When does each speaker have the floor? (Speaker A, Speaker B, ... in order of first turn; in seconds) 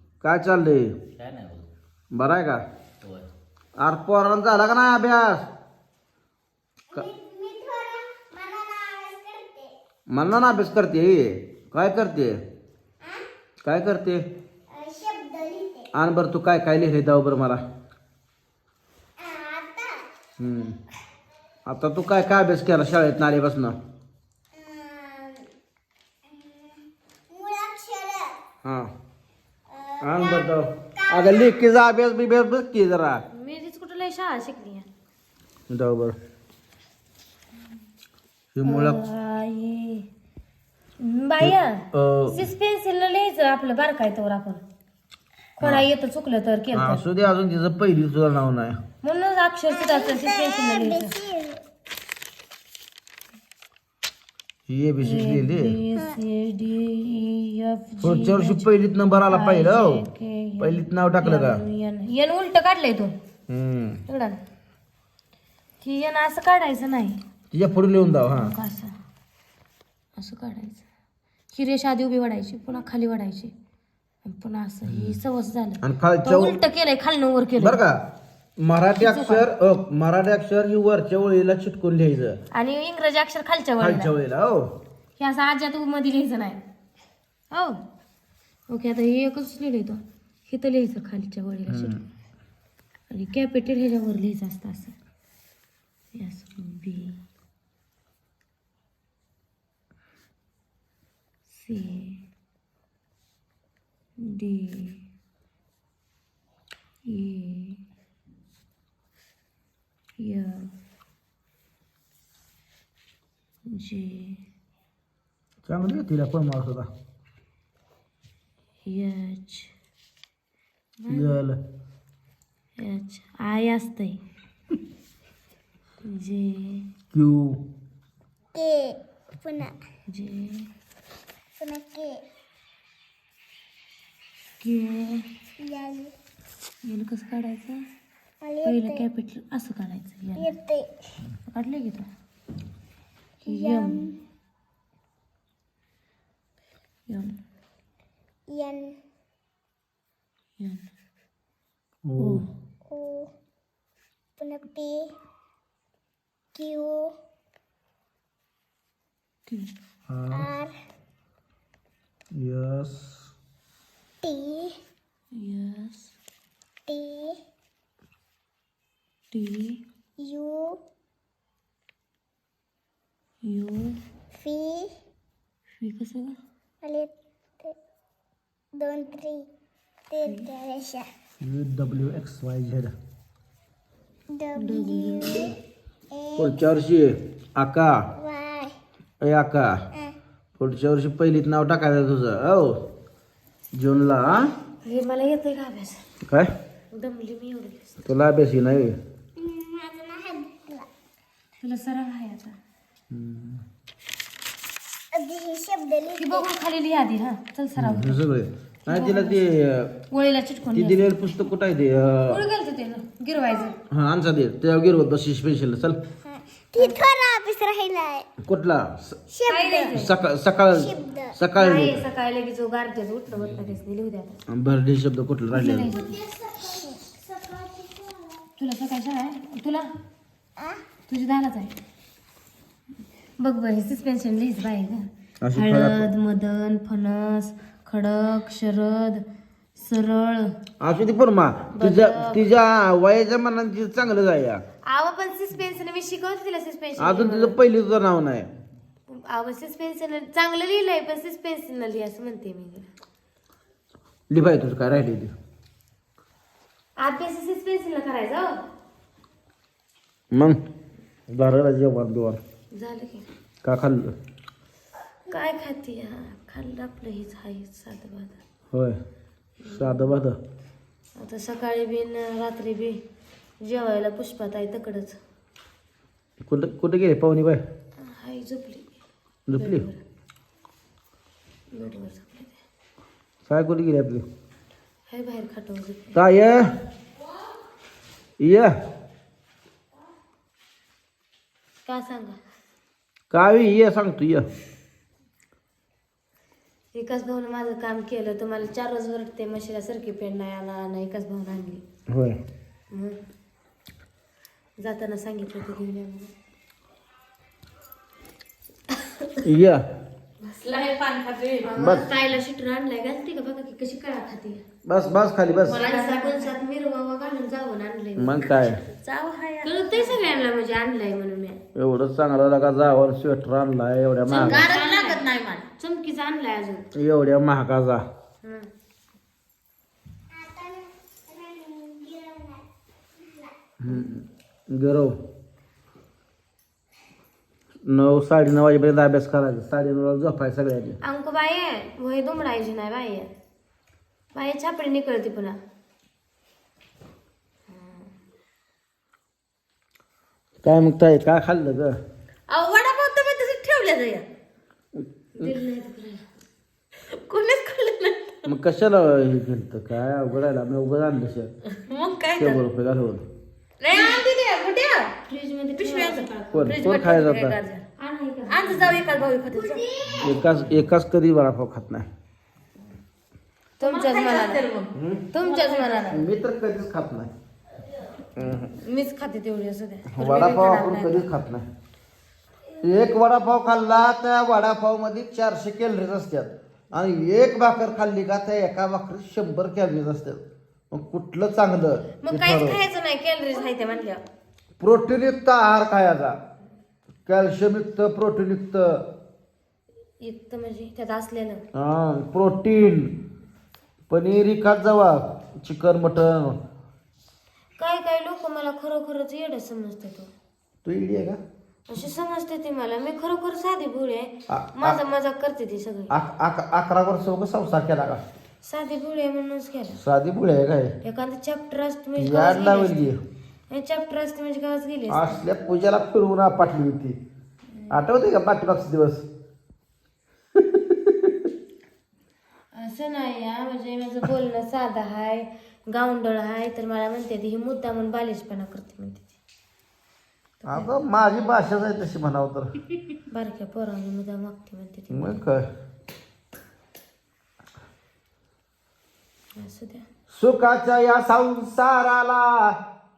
Speaker A: 0.2-1.0, 2.1-2.6, 3.8-5.5, 10.1-12.4, 13.6-14.2, 15.9-17.6, 20.4-20.8, 21.7-23.8, 28.6-28.9, 30.0-33.2, 35.7-36.1, 38.5-39.0, 41.4-42.5, 45.6-45.9, 46.7-48.8, 54.7-55.7, 58.0-60.0, 60.6-61.6, 63.5-64.0, 67.5-68.5, 74.9-75.2, 75.8-76.5, 77.6-78.0, 78.6-82.4, 83.8-84.7, 91.7-92.0, 115.6-116.9, 121.1-121.6, 127.1-127.6, 152.0-152.4, 160.1-160.5, 162.3-163.3, 181.4-182.9, 186.3-188.1, 189.2-189.8, 190.6-192.8, 193.7-194.5, 196.2-196.5, 198.0-199.0, 203.1-203.6, 207.8-209.9, 210.7-212.4, 213.9-216.0, 218.4-219.2, 219.9-222.0, 224.5-225.9, 235.4-236.1, 240.8-244.6, 247.0-248.5, 254.3-255.3, 260.3-260.6, 261.3-262.4, 263.6-264.1, 268.7-269.0, 269.7-270.4, 276.5-277.6, 279.5-279.9, 283.4-284.2, 286.1-286.7, 288.4-288.7, 293.3-294.5, 302.1-302.4, 309.4-309.9, 311.8-312.1, 314.8-315.8, 318.2-318.8, 321.7-324.6, 326.9-328.0, 333.8-335.1, 337.8-341.0, 350.6-351.9, 354.9-355.5, 358.4-361.5, 362.4-363.2, 366.5-367.6, 370.2-372.1, 374.9-375.3, 376.1-377.3, 378.4-378.8, 380.1-381.6, 382.8-392.8, 394.8-396.4, 397.2-399.0, 401.7-403.1, 404.1-406.6, 410.8-411.4, 414.5-415.0, 416.1-418.2, 420.0-420.9, 422.2-423.2, 425.1-427.2, 427.9-429.2, 430.7-431.3, 440.7-442.7, 445.1-445.6, 450.3-452.8
Speaker B: 1.1-1.6, 310.4-311.7, 315.6-316.5, 318.9-320.4, 324.4-325.7, 352.5-354.2, 357.1-358.4, 361.8-362.6, 363.8-365.2, 365.7-367.8, 368.5-370.5, 373.8-376.2
Speaker C: 6.9-9.7, 14.7-15.9, 19.2-20.1, 24.5-25.5, 26.2-28.4, 29.7-31.6, 49.7-51.6, 128.5-129.7, 131.6-132.2, 135.6-136.1, 138.4-139.1, 140.4-140.9, 143.4-144.2, 148.5-149.0, 152.8-153.3, 154.4-155.1, 156.5-157.1, 160.3-160.7, 164.2-164.8, 166.9-167.4, 170.2-170.8, 174.3-174.9, 176.8-177.7, 178.7-179.5, 180.1-181.1, 184.3-185.5, 186.1-186.6, 188.2-188.7, 199.4-200.9, 205.1-206.5, 216.2-218.3, 219.3-219.9, 220.7-221.3, 225.9-228.5, 330.3-332.6, 333.2-333.5
Speaker D: 33.3-34.9, 38.6-40.1, 41.0-44.6, 45.6-47.0, 49.0-51.2, 55.0-58.7, 59.3-63.1, 64.1-64.4, 65.8-67.2, 68.3-68.9, 70.2-70.8, 71.5-73.5, 74.2-77.8, 79.0-79.5, 82.5-84.1, 85.2-86.6, 87.5-87.8, 88.7-92.0, 93.1-94.9, 96.1-97.2, 101.5-102.2, 104.2-105.0, 107.1-107.8, 110.2-110.7, 113.7-114.4, 118.8-119.7, 121.0-121.4, 122.8-124.2, 126.0-126.9, 130.1-130.7, 134.6-135.3, 136.8-137.8, 138.6-140.5, 141.4-142.1, 143.4-144.1, 147.1-147.3, 152.2-152.5, 165.3-166.1, 169.3-169.8, 173.4-174.0, 175.8-176.4, 180.2-180.5, 184.6-185.5, 194.8-196.0, 196.9-197.9, 201.6-202.6, 206.2-208.2, 208.8-209.5, 210.1-211.0, 212.3-213.8, 219.5-220.1, 221.6-224.4, 225.5-226.2, 228.6-229.9, 231.1-231.7, 233.4-239.2, 239.8-240.5, 241.7-242.4, 244.9-247.6, 249.1-252.9, 257.0-258.6, 262.7-263.2, 265.3-268.4, 269.6-270.1, 271.2-273.0, 273.6-275.2, 278.0-278.9, 279.5-280.0, 281.7-282.6, 285.1-286.1, 291.9-292.4, 296.9-301.8, 302.9-303.2, 304.8-306.3, 309.1-309.4, 311.6-314.6, 315.7-318.6, 319.6-321.6, 324.3-325.2, 325.8-326.9, 341.0-343.3, 344.3-345.6, 347.7-348.1, 355.4-356.2, 363.9-364.3, 365.2-367.1, 367.9-370.3, 373.8-374.6, 375.3-376.2, 378.8-381.3, 392.2-394.2, 400.2-401.6, 407.8-410.3, 411.9-416.1, 418.6-420.0, 421.0-423.1, 423.7-425.4, 432.7-439.3, 440.6-441.0, 443.3-445.4, 449.6-450.1